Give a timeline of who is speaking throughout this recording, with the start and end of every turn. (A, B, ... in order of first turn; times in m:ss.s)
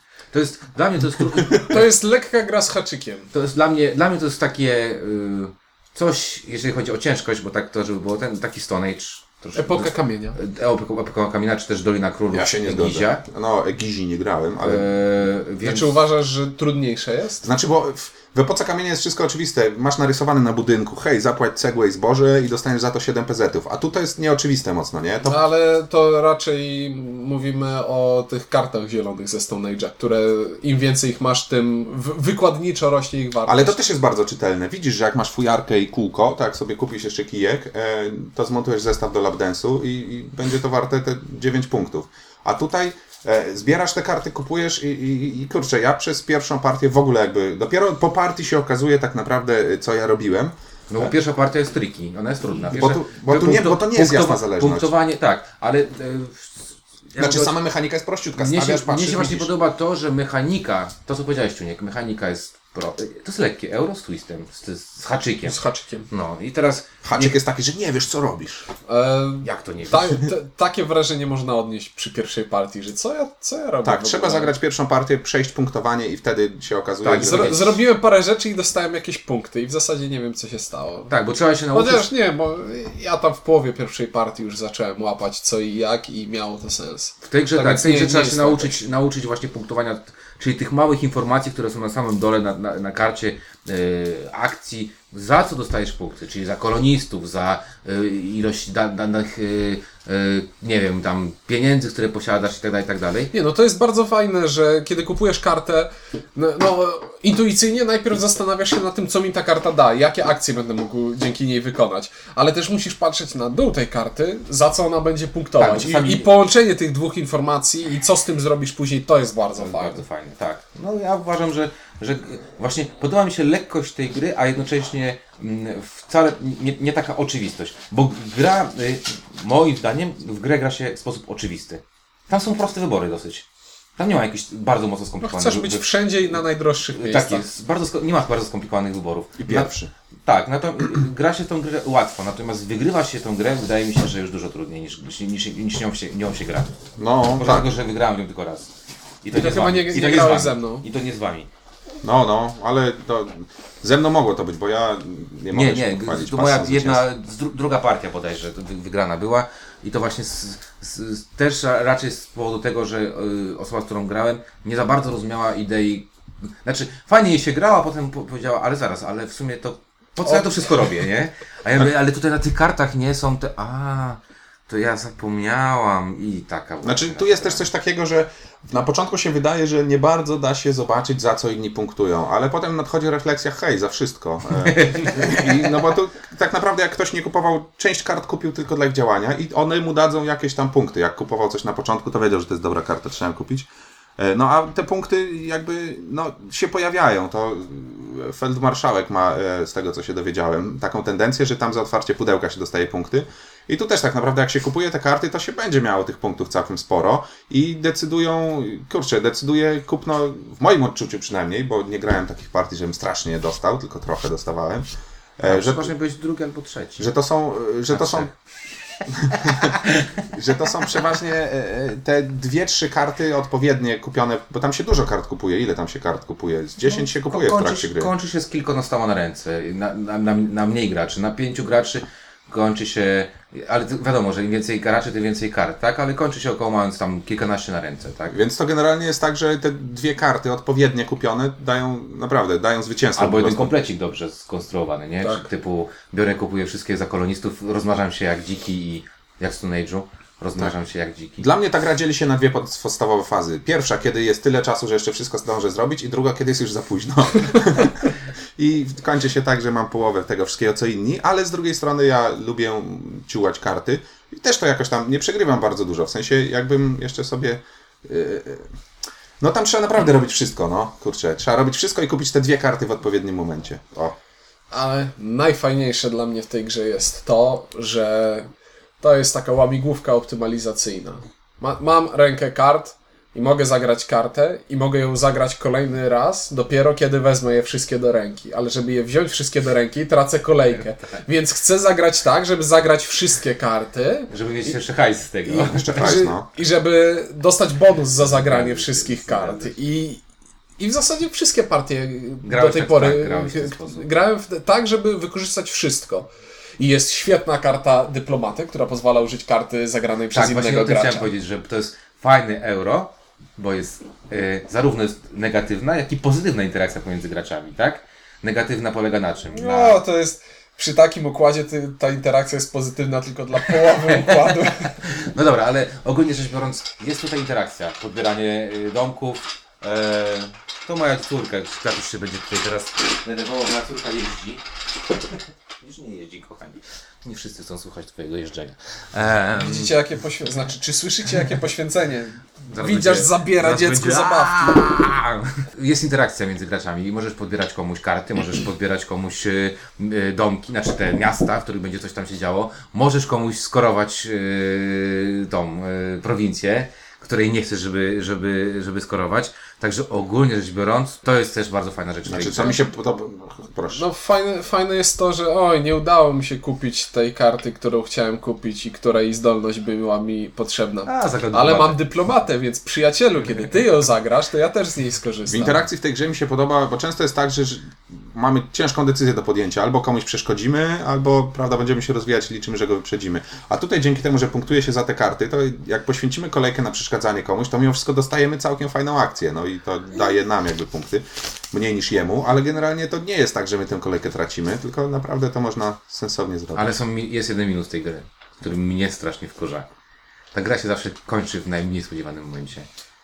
0:00.3-0:01.9 A
0:01.2-0:01.6 B
0:01.6-0:03.3 C
0:03.3-0:13.2 A
0:09.6-0:10.4 C
0:12.3-0:15.0 B
0:14.6-0:16.0 A
0:15.6-0:17.5 C
0:17.4-0:25.4 B
0:25.2-0:33.8 C
0:33.5-0:51.1 B
0:50.9-0:57.6 A
0:52.7-0:54.9 B
0:57.2-0:59.5 B
0:58.4-1:07.4 A
1:05.4-1:06.1 C
1:07.0-1:08.7 B
1:08.9-1:14.6 C
1:09.4-1:10.2 A
1:13.8-1:17.6 B
1:17.0-1:17.8 A
1:17.1-1:21.1 C
1:21.1-1:22.1 A
1:21.7-1:28.8 C
1:27.2-1:43.3 A
1:43.3-2:00.0 C
1:55.6-1:56.3 A
1:59.6-2:16.4 A
2:15.2-2:17.5 C
2:16.9-2:19.7 A
2:19.4-2:19.9 B
2:20.3-2:26.7 A
2:27.0-2:27.8 B
2:27.4-2:28.7 A
2:29.2-2:31.5 A
2:29.3-2:30.8 C
2:32.0-2:37.1 B
2:35.5-2:46.1 A
2:46.6-2:57.7 A
2:50.2-2:50.8 C
2:56.8-3:34.9 B
3:04.7-3:05.6 A
3:35.4-3:35.9 B
3:35.4-3:37.1 A
3:37.0-3:38.3 B
3:37.9-3:38.3 A
3:39.1-3:39.7 B
3:39.4-3:40.1 A
3:40.3-3:48.1 B
3:46.8-3:58.4 A
3:58.3-4:03.8 B
4:03.2-4:11.5 A
4:05.2-4:05.5 C
4:11.4-4:28.7 B
4:29.4-4:34.2 B
4:34.7-4:38.5 C
4:39.0-4:54.3 C
4:50.7-4:51.2 A
4:54.3-4:56.1 A
4:55.5-5:00.2 C
4:55.6-4:56.5 B
4:58.2-4:59.8 A
5:00.8-5:11.3 C
5:02.4-5:04.2 A
5:10.3-5:20.0 A
5:19.5-5:24.9 C
5:23.7-5:34.6 A
5:35.8-5:40.0 A
5:39.6-5:45.0 C
5:42.7-6:02.8 A
6:02.3-6:04.0 B
6:03.9-6:15.8 C
6:11.1-6:12.0 A
6:15.5-6:37.0 B
6:36.8-6:39.9 A
6:40.5-6:42.9 A